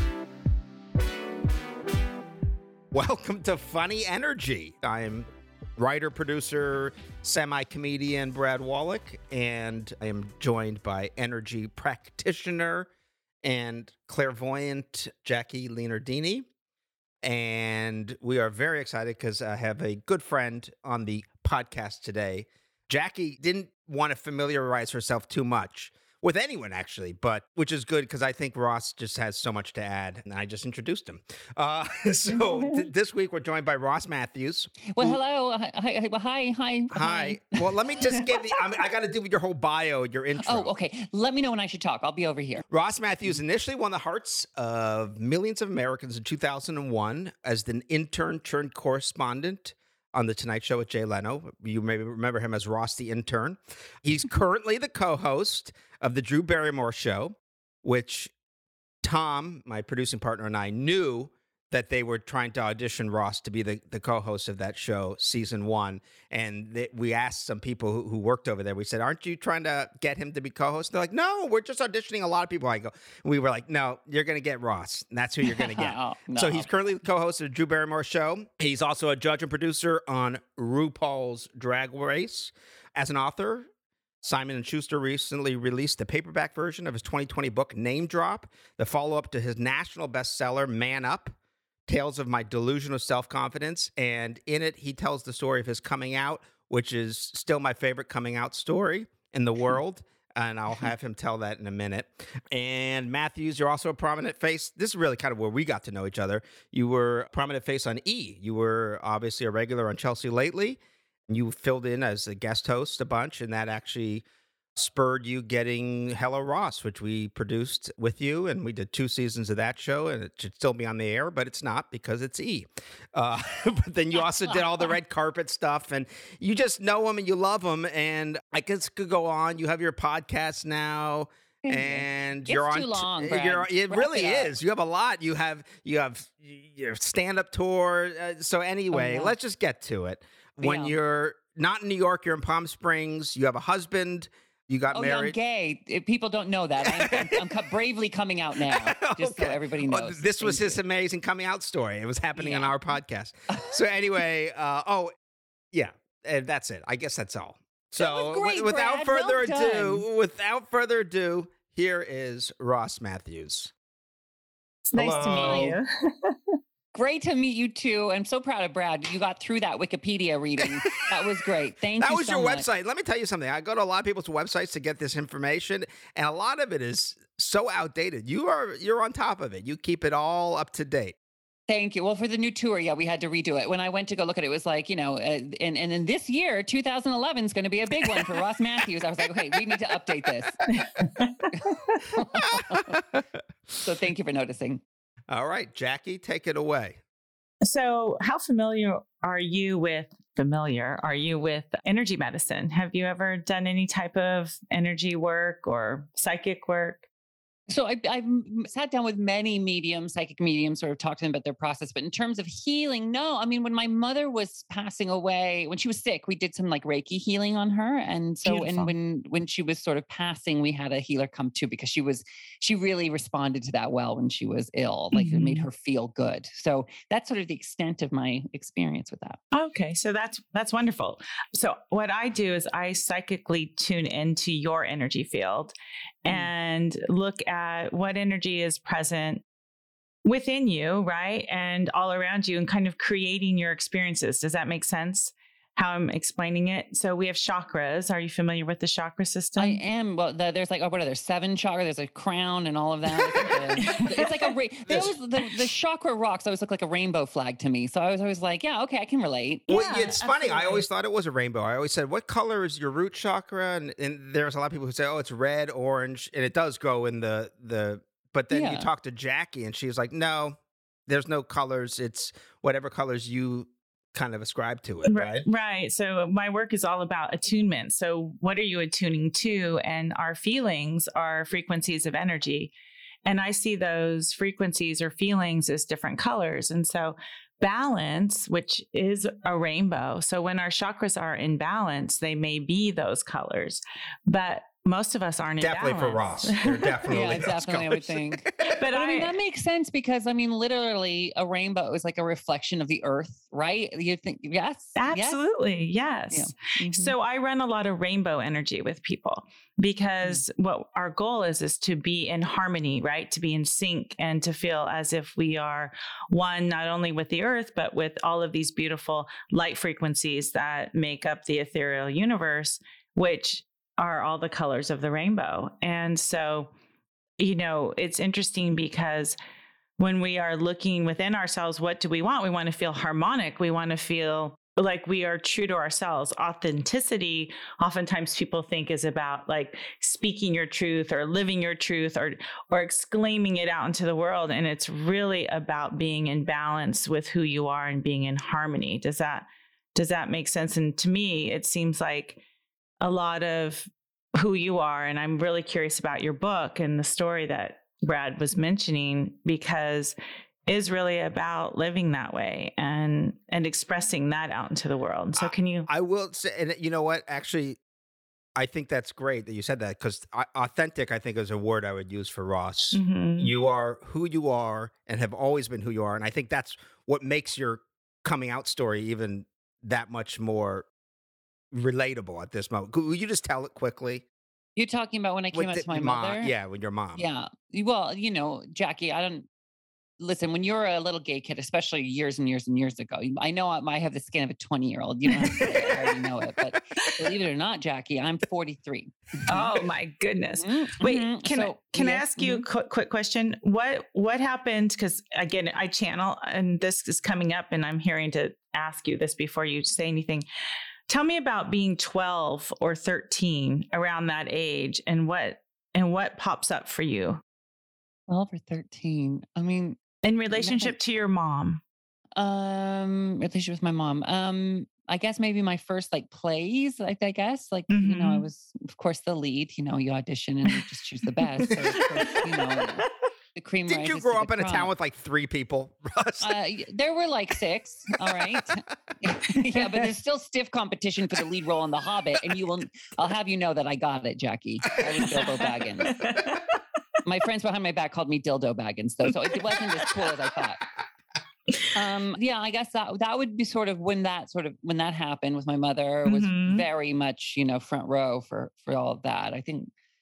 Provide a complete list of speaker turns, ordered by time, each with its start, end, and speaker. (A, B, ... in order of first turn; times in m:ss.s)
0:02.9-0:12.9 A
0:13.4-0:16.5 A
0:17.2-0:35.2 A
0:34.9-0:37.7 B
0:36.9-0:40.7 A
0:40.4-0:42.6 B
0:42.7-0:58.3 A
0:59.0-1:23.7 A
1:15.4-1:16.7 B
1:24.2-1:31.4 A
1:31.9-1:54.2 A
1:54.8-2:25.4 A
2:04.1-2:05.0 B
2:11.6-2:14.5 B
2:18.9-2:19.4 B
2:20.6-2:21.0 B
2:24.9-2:30.8 B
2:26.8-2:27.5 A
2:28.7-2:35.1 A
2:32.4-2:32.8 B
2:33.5-2:33.8 B
2:35.7-2:43.7 A
2:38.0-2:40.1 B
2:44.8-2:46.4 C
2:45.0-2:45.8 A
2:45.4-2:45.8 B
2:46.9-2:52.6 B
2:50.6-2:51.0 A
2:52.0-3:01.2 A
3:01.7-3:10.6 B
3:10.7-3:12.0 C
3:12.1-3:13.0 B
3:12.3-3:13.4 A
3:13.8-3:14.8 B
3:15.3-3:17.0 A
3:17.6-3:27.0 C
3:27.7-3:49.4 B
3:38.4-3:38.9 C
3:45.1-3:45.7 C
3:49.5-3:59.4 C
4:00.2-4:09.8 C
4:09.6-4:19.7 B
4:13.2-4:14.5 C
4:19.7-4:20.8 C
4:19.7-4:35.5 A
4:28.5-4:28.9 B
4:35.1-4:42.7 C
4:43.3-4:57.1 C
4:55.6-4:58.6 A
4:57.1-5:05.4 B
4:58.6-4:59.3 C
5:05.0-5:26.7 C
5:06.3-5:07.2 B
5:27.4-5:29.4 C
5:30.0-5:52.4 C
5:53.0-6:00.2 C
6:00.7-6:05.9 C
6:05.4-6:07.8 A
6:08.6-6:20.9 A
6:12.9-6:13.5 C
6:21.7-6:24.2 A
6:24.8-6:26.5 B
6:25.5-6:27.3 A
6:27.2-6:29.5 B
6:30.2-6:39.7 B
6:35.3-6:35.8 C
6:35.6-6:36.2 A
6:39.5-6:50.4 C
6:40.6-6:42.7 B
6:51.1-6:57.4 C
6:58.3-7:00.0 B
7:00.2-7:01.8 C
7:00.5-7:01.0 B
7:02.4-7:14.9 B
7:07.9-7:08.5 C
7:12.0-7:12.9 C
7:13.9-7:16.6 A
7:16.4-7:26.2 B
7:18.3-7:18.7 A
7:19.6-7:20.0 C
7:25.1-7:25.4 A
7:25.6-7:26.8 C
7:27.2-7:30.8 B
7:31.9-7:39.9 B
7:36.3-7:36.9 C